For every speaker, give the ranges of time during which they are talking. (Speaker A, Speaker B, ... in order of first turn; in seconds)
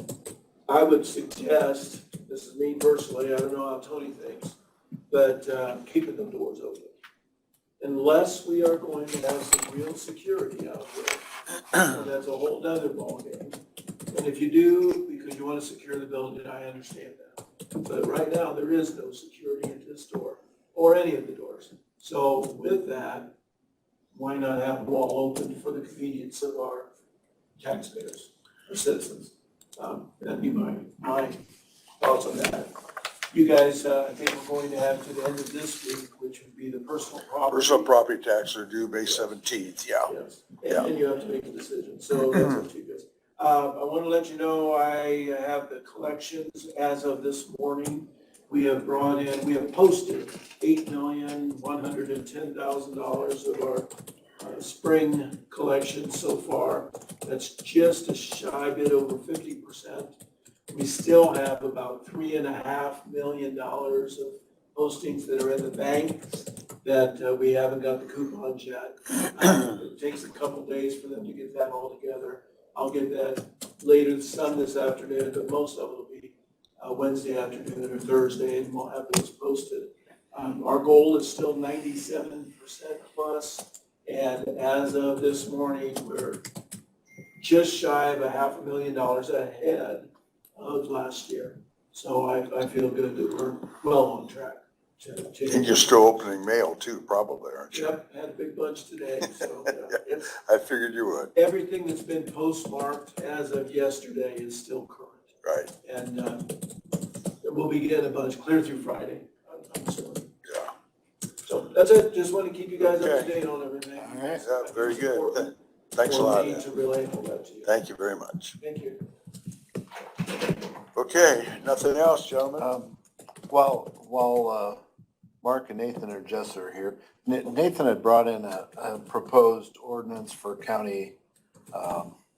Speaker A: 0.7-4.6, 5.1-6.9, 7.8-23.4, 24.1-26.9, 27.6-31.4, 32.0-32.7, 33.3-37.9, 40.1-60.2, 60.7-86.4, 87.4-96.0, 97.7-100.4, 101.3-106.6, 107.4-110.3, 111.5-117.7, 118.6-119.0
Speaker B: 37.5-40.1, 95.5-98.0, 99.9-101.3, 105.4-105.7, 110.5-110.7, 112.8-113.3, 114.4-116.7, 117.7-118.6, 121.0-122.7
Speaker C: 114.0-114.4, 122.6-123.0, 123.5-124.8, 125.4-131.2, 131.7-132.2